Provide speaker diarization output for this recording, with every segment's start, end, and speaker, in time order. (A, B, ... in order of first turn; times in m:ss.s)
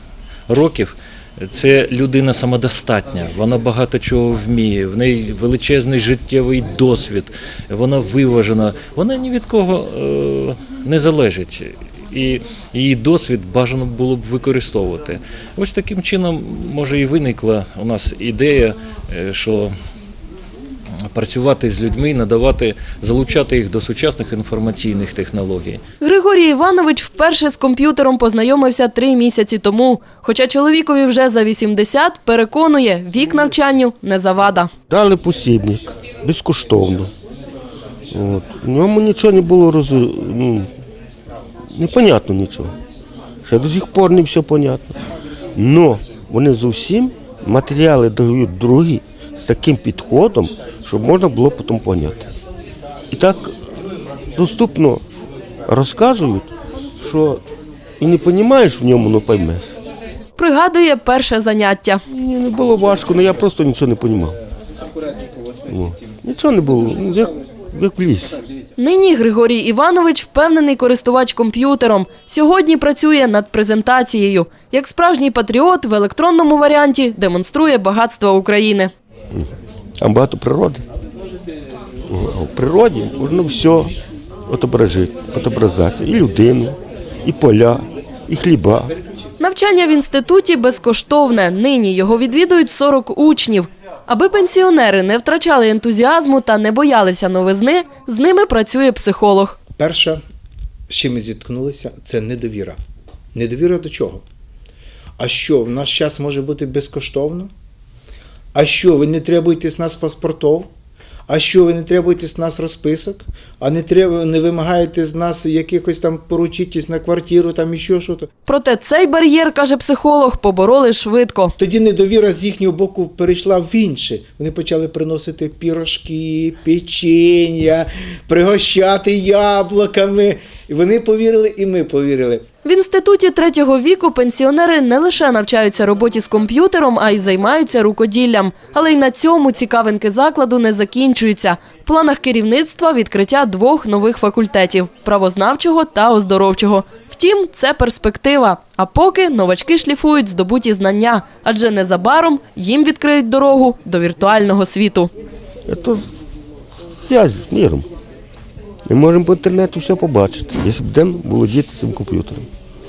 0:00.5-0:19.7 A
0:21.1-0:25.8 A
0:26.0-0:34.7 B
0:34.9-0:37.1 C
0:38.1-0:40.7 C
0:41.7-0:42.7 C
0:43.4-0:45.0 C
0:45.6-0:52.2 C
0:53.1-0:53.6 C
0:54.3-0:55.0 C
0:55.7-0:57.4 C
0:58.0-0:59.8 C
1:00.4-1:02.0 B
1:02.1-1:04.4 C
1:05.7-1:08.4 C
1:08.8-1:18.9 B
1:19.3-1:20.8 C
1:22.1-1:24.0 C
1:24.5-1:28.9 C
1:29.4-1:39.6 B
1:39.8-1:40.2 D
1:40.9-1:42.8 D
1:43.3-1:44.2 D
1:45.2-1:47.5 D
1:48.5-1:50.7 D
1:51.3-1:58.3 D
1:58.5-2:01.5 B
2:01.6-2:12.4 D
2:12.6-2:35.1 B
2:35.7-2:36.0 C
2:37.0-2:37.8 C
2:38.9-2:42.5 C